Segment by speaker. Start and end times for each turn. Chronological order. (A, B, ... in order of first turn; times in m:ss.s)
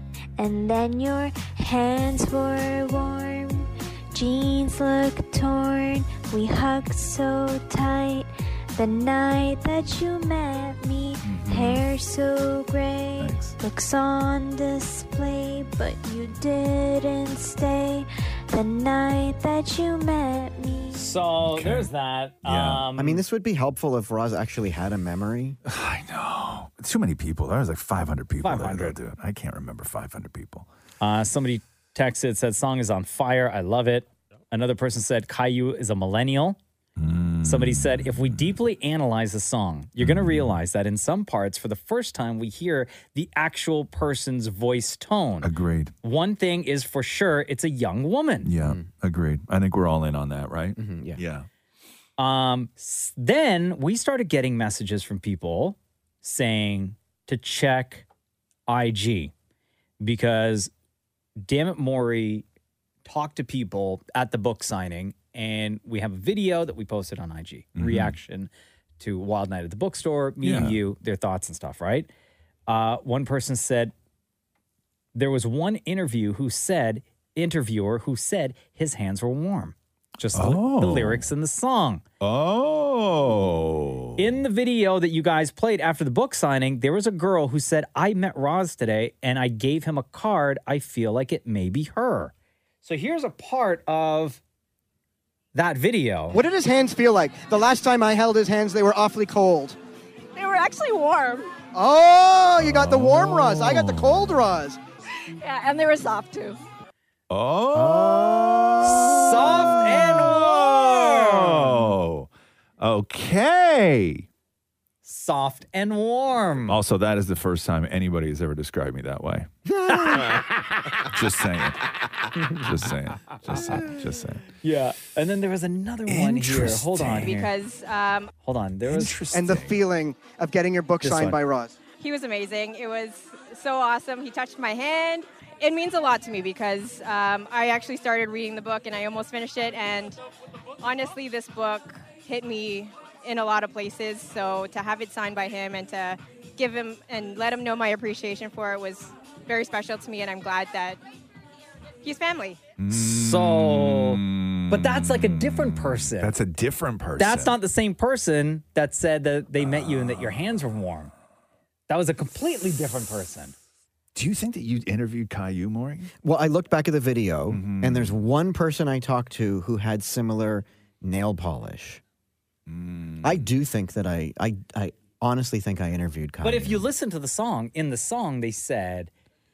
0:00.4-0:21.0 A
0:11.2-0:11.9 B
0:13.2-0:13.6 B
0:20.9-0:23.2 C
0:21.4-0:21.9 B
0:22.4-0:22.9 B
0:23.0-0:25.6 D
0:25.6-0:30.7 B
0:28.4-0:29.0 C
0:31.0-0:36.6 C
0:37.0-0:38.6 B
0:37.4-0:45.5 C
0:40.0-0:40.6 B
0:45.4-0:45.9 B
0:46.0-0:48.5 C
0:48.4-0:51.5 B
0:48.6-0:48.8 D
0:50.8-0:51.2 D
0:52.2-0:58.0 C
0:58.7-0:59.3 C
1:00.0-1:00.7 C
1:01.4-1:02.4 C
1:03.0-1:12.1 C
1:07.8-1:08.2 B
1:10.4-1:10.8 B
1:12.7-1:13.9 C
1:15.1-1:22.0 C
1:20.3-1:21.3 B
1:22.2-1:24.4 B
1:24.2-1:34.4 C
1:35.5-1:36.4 C
1:36.3-1:39.8 E
1:40.3-1:41.5 F
1:41.7-1:44.8 E
1:42.6-1:44.4 B
1:45.4-1:46.6 F
1:47.3-1:54.3 B
1:47.7-1:48.8 D
1:48.8-1:51.7 C
1:55.0-1:56.8 C
1:56.6-1:59.5 B
1:59.9-2:00.7 C
2:01.1-2:01.8 B
2:02.6-2:04.4 B
2:04.6-2:07.5 C
2:06.1-2:07.4 B
2:07.2-2:08.3 F
2:08.4-2:09.2 C
2:08.8-2:09.8 B
2:09.3-2:11.8 E
2:11.0-2:11.4 C
2:11.9-2:20.2 F
2:20.8-2:31.0 F
2:32.0-2:32.6 F
2:32.8-2:37.6 B
2:32.9-2:36.3 C
2:37.2-2:41.1 C
2:39.6-2:40.5 B
2:41.9-2:43.5 C
2:44.1-2:46.1 B
2:46.2-2:52.0 D
2:47.5-2:48.2 B
2:52.7-2:53.5 B
2:53.2-2:56.8 D
2:56.4-2:59.1 C